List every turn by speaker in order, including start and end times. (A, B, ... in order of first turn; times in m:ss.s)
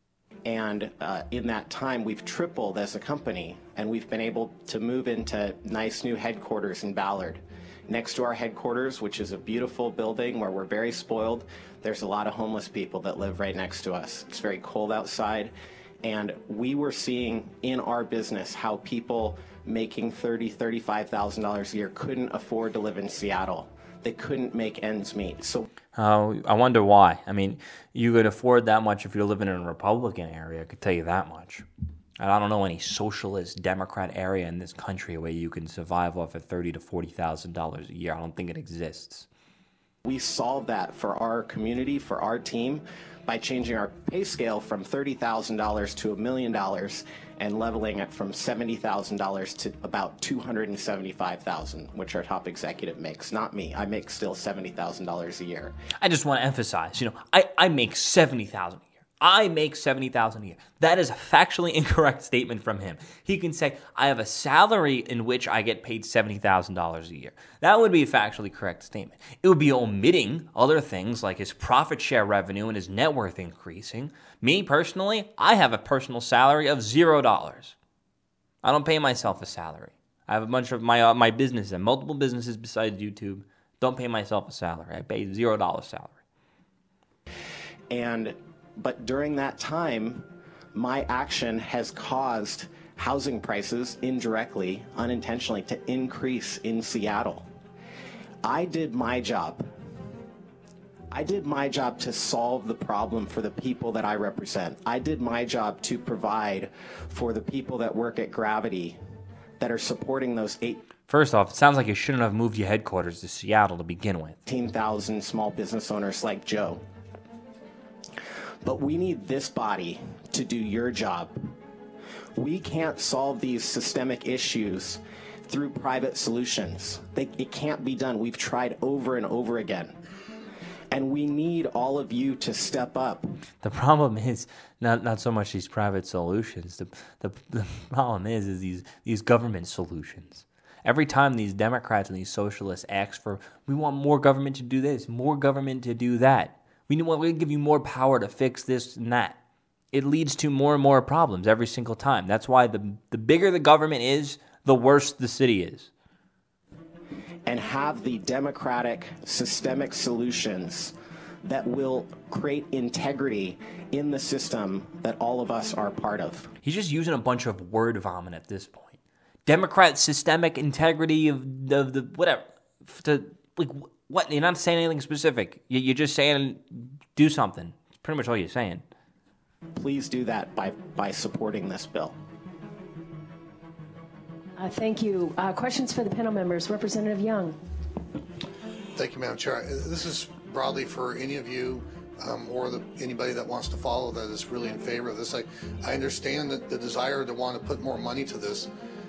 0:00.4-0:25.6 A
0:25.9-0:31.6 B
0:32.2-0:39.3 B
0:40.1-0:55.7 A
0:56.0-1:17.7 B
1:18.6-1:26.2 B
1:27.9-1:37.4 A
1:38.4-1:39.6 A
1:41.1-1:49.0 A
1:49.6-1:50.8 A
1:51.1-1:54.4 B
1:54.4-1:56.8 A
1:58.6-2:01.3 A
2:02.4-2:09.9 A
2:10.9-2:13.3 A
2:13.6-2:29.4 B
2:29.9-2:35.9 B
2:37.4-2:46.5 A
2:46.6-2:58.8 B
2:59.7-3:02.2 A
3:04.6-3:07.6 C
3:09.0-3:18.7 D